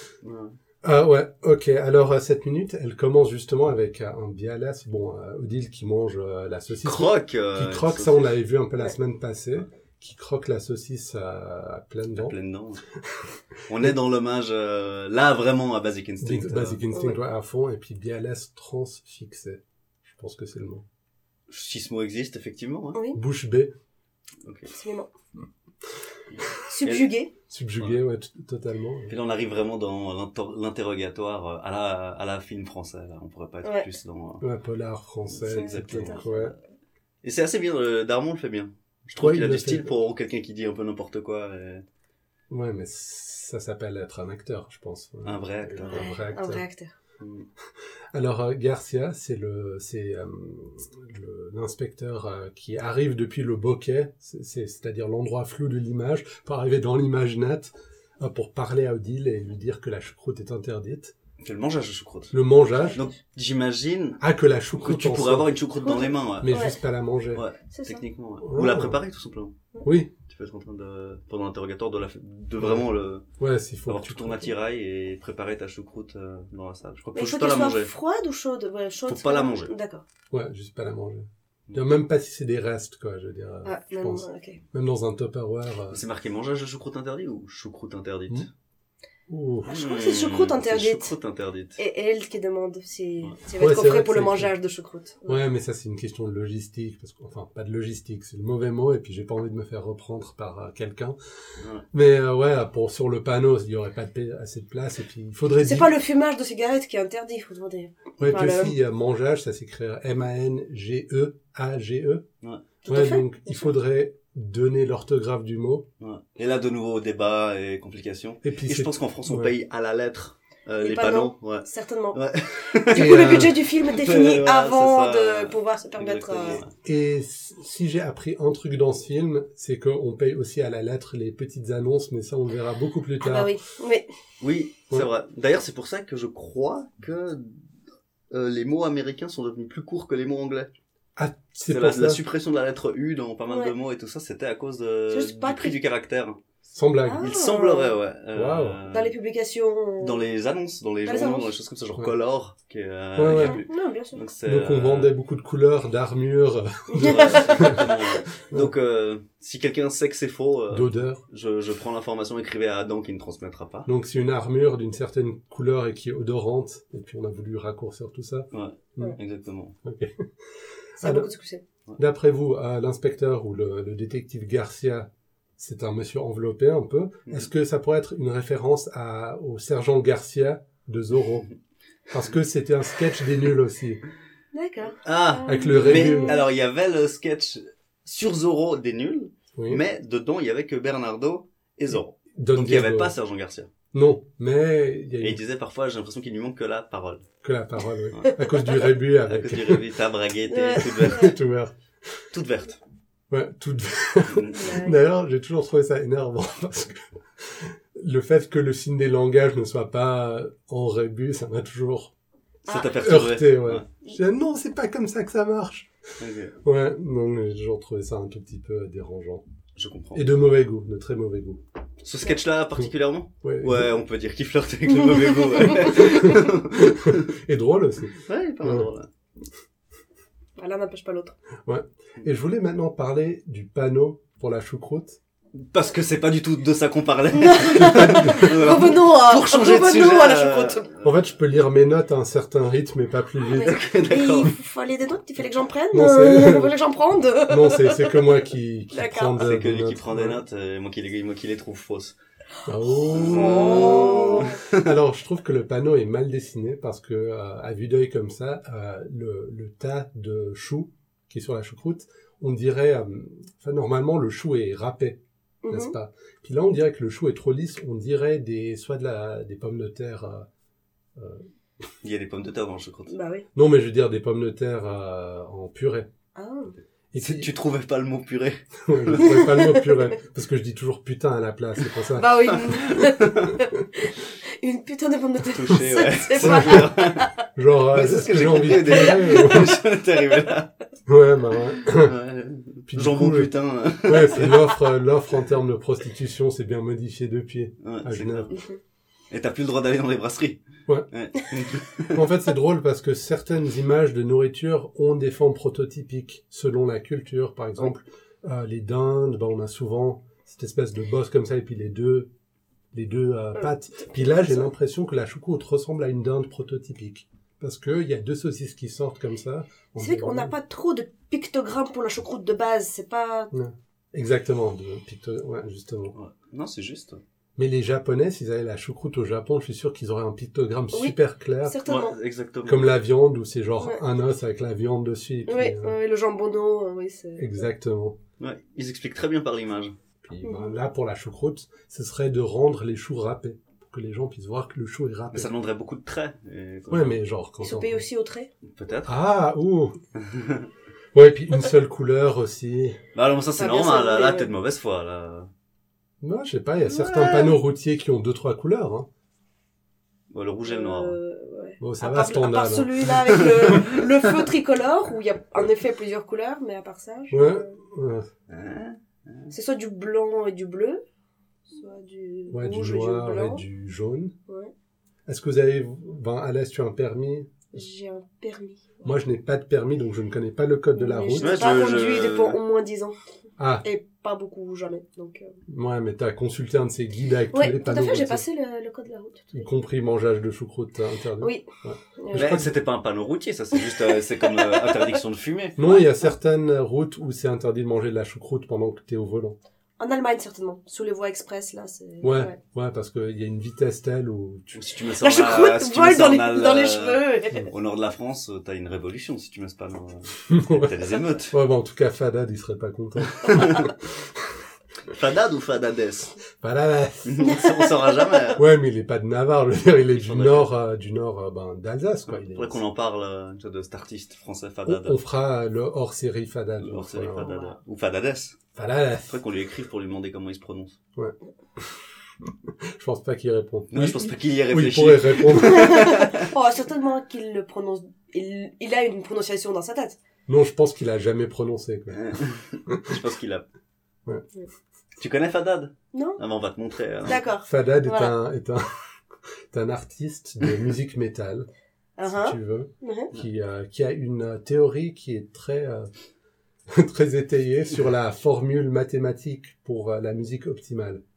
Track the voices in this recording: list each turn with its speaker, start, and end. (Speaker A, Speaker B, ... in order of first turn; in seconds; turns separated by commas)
Speaker A: 0.2-0.6, Speaker B: 0.8-12.3, Speaker A: 6.8-8.3, Speaker A: 12.2-12.8, Speaker B: 13.1-13.9, Speaker A: 13.7-16.8, Speaker B: 16.2-20.9, Speaker C: 16.9-17.2, Speaker A: 21.5-23.0, Speaker C: 22.9-23.2, Speaker B: 23.1-23.7, Speaker A: 24.4-24.7, Speaker C: 24.7-25.1, Speaker C: 26.7-27.3, Speaker A: 26.8-27.1, Speaker B: 27.5-29.1, Speaker A: 29.1-34.4, Speaker C: 33.6-33.9, Speaker B: 34.4-36.5, Speaker A: 35.3-36.6, Speaker C: 35.5-36.3, Speaker A: 37.2-41.8, Speaker B: 39.2-40.0, Speaker B: 42.5-46.6, Speaker A: 45.2-46.1, Speaker C: 45.8-46.9, Speaker A: 47.2-47.5, Speaker B: 48.1-61.1, Speaker A: 61.4-62.4, Speaker B: 62.3-63.0, Speaker A: 62.9-64.2, Speaker B: 64.2-65.5, Speaker A: 64.8-66.6, Speaker C: 65.8-66.8, Speaker B: 66.4-67.4, Speaker A: 67.3-69.5, Speaker C: 67.7-68.0, Speaker B: 68.4-69.0, Speaker B: 69.8-70.1, Speaker A: 70.3-73.2, Speaker B: 72.6-74.5, Speaker A: 73.9-77.9, Speaker C: 77.2-80.0, Speaker A: 79.1-79.7, Speaker B: 80.3-86.0, Speaker C: 83.7-84.6, Speaker A: 85.9-88.5, Speaker B: 89.3-89.7, Speaker C: 89.7-91.1, Speaker A: 89.7-91.8, Speaker C: 91.8-95.4, Speaker B: 93.6-94.5, Speaker B: 95.3-101.2, Speaker A: 101.6-101.9, Speaker B: 101.9-105.9, Speaker C: 105.6-108.8, Speaker B: 108.2-112.2, Speaker C: 112.8-113.7, Speaker B: 112.9-115.9, Speaker A: 116.0-126.7, Speaker B: 118.4-119.5, Speaker C: 120.8-122.2, Speaker C: 122.8-126.6, Speaker B: 122.9-123.6, Speaker B: 126.8-133.6, Speaker C: 133.2-134.1, Speaker A: 134.4-137.6, Speaker A: 138.3-140.7, Speaker B: 141.2-142.2, Speaker A: 141.7-146.4, Speaker C: 145.1-145.8, Speaker B: 146.7-147.3, Speaker C: 147.0-147.9, Speaker A: 147.2-149.2, Speaker B: 148.3-148.8, Speaker C: 148.9-150.2, Speaker A: 150.0-155.1, Speaker C: 151.1-151.5, Speaker B: 153.2-153.6, Speaker C: 153.3-154.2, Speaker B: 154.4-157.9, Speaker C: 156.9-158.0, Speaker A: 157.0-163.9, Speaker B: 160.7-161.2, Speaker B: 163.9-169.1, Speaker A: 168.5-169.8, Speaker B: 169.8-170.3, Speaker B: 171.0-171.3, Speaker C: 171.0-171.6, Speaker B: 172.0-181.5, Speaker B: 182.1-184.0, Speaker C: 184.5-186.4, Speaker A: 185.0-193.7, Speaker B: 185.5-186.4, Speaker B: 189.6-189.8, Speaker B: 191.9-193.1, Speaker B: 193.9-195.4, Speaker A: 195.2-197.3, Speaker B: 197.4-199.8, Speaker A: 198.1-198.4, Speaker A: 199.3-201.3, Speaker C: 200.5-201.4, Speaker B: 200.8-202.3, Speaker A: 202.3-202.8, Speaker B: 203.3-212.1, Speaker A: 204.3-204.7, Speaker C: 204.5-205.0, Speaker A: 212.7-213.9, Speaker C: 212.7-212.9, Speaker B: 212.9-215.9, Speaker A: 216.2-216.6, Speaker B: 216.6-219.4, Speaker A: 219.8-220.3, Speaker B: 220.1-221.6, Speaker A: 222.0-227.3, Speaker B: 223.4-223.9, Speaker B: 225.9-228.9, Speaker A: 228.2-229.1, Speaker C: 230.6-231.4, Speaker B: 231.7-235.2, Speaker A: 235.5-241.1, Speaker C: 237.3-240.9, Speaker B: 237.8-238.6, Speaker B: 241.0-243.8, Speaker A: 243.4-244.5, Speaker C: 243.5-249.4, Speaker B: 245.9-246.7, Speaker B: 247.5-250.4, Speaker A: 249.4-252.2, Speaker B: 252.7-265.2, Speaker C: 252.9-254.6, Speaker A: 253.1-254.9, Speaker C: 265.6-265.9, Speaker B: 265.7-270.5, Speaker B: 271.2-271.5, Speaker A: 272.0-273.1, Speaker C: 273.1-273.5, Speaker B: 273.6-276.1, Speaker C: 276.4-276.7, Speaker B: 277.1-277.5, Speaker A: 277.2-279.5, Speaker B: 278.9-282.4, Speaker C: 279.2-280.1, Speaker C: 282.1-287.3, Speaker A: 282.5-283.5, Speaker A: 285.5-287.2, Speaker B: 286.4-286.9, Speaker B: 287.6-289.8, Speaker A: 287.9-290.7, Speaker C: 288.9-289.8, Speaker B: 291.1-292.1, Speaker A: 291.8-294.8, Speaker B: 292.9-293.5, Speaker B: 294.1-298.5, Speaker A: 297.8-298.6, Speaker C: 298.5-298.8, Speaker A: 299.3-302.2, Speaker B: 302.1-312.3, Speaker B: 312.9-320.5, Speaker C: 313.6-314.7, Speaker C: 320.0-323.5, Speaker B: 323.5-326.1, Speaker A: 326.1-327.2, Speaker B: 327.6-331.8, Speaker C: 330.9-332.1, Speaker A: 331.9-332.9, Speaker B: 332.6-336.0, Speaker C: 335.5-337.6, Speaker B: 337.4-338.2, Speaker A: 338.4-340.0, Speaker B: 340.2-345.5, Speaker C: 340.4-340.7, Speaker A: 345.3-347.2, Speaker B: 346.9-348.1, Speaker C: 347.6-348.5, Speaker A: 348.7-349.1, Speaker B: 349.1-350.0, Speaker A: 350.2-350.7, Speaker B: 351.1-353.0, Speaker A: 353.1-355.5, Speaker C: 353.6-354.5, Speaker B: 356.2-359.1, Speaker A: 356.9-357.6, Speaker A: 360.3-361.2, Speaker C: 360.6-367.8, Speaker B: 361.8-363.1, Speaker A: 363.3-363.8, Speaker B: 367.3-368.3, Speaker A: 368.5-369.5, Speaker C: 369.5-371.0, Speaker C: 371.7-373.6, Speaker B: 372.5-374.3, Speaker C: 374.5-374.7, Speaker B: 375.3-377.5, Speaker C: 377.7-379.2, Speaker B: 379.0-381.6, Speaker C: 380.9-383.2, Speaker A: 381.4-382.6, Speaker B: 383.6-383.9, Speaker C: 383.8-385.6, Speaker B: 385.7-388.4, Speaker C: 387.5-389.6, Speaker B: 389.5-392.7, Speaker C: 391.4-391.7, Speaker C: 392.2-392.6, Speaker A: 392.3-395.8, Speaker C: 393.8-394.0, Speaker C: 394.6-395.2, Speaker B: 395.8-399.6, Speaker C: 400.0-402.6, Speaker B: 402.2-404.8, Speaker A: 404.7-411.6, Speaker C: 405.2-407.7, Speaker B: 410.5-410.9, Speaker B: 411.5-414.6, Speaker A: 413.4-413.9, Speaker A: 415.1-416.4, Speaker B: 416.6-417.6, Speaker A: 417.2-418.6, Speaker C: 417.4-418.5, Speaker B: 418.6-422.8, Speaker A: 420.1-420.7, Speaker A: 422.3-425.2, Speaker B: 424.9-427.6, Speaker A: 426.8-428.6, Speaker B: 428.8-429.4, Speaker A: 429.3-431.0, Speaker B: 431.2-436.1, Speaker A: 433.9-436.5, Speaker C: 435.6-440.2, Speaker B: 440.5-443.2, Speaker A: 442.1-443.6, Speaker A: 445.2-447.4, Speaker C: 446.1-446.4, Speaker C: 447.3-448.4, Speaker B: 447.6-448.8, Speaker B: 449.7-451.7, Speaker C: 452.2-453.3, Speaker B: 452.3-456.1, Speaker B: 456.9-461.2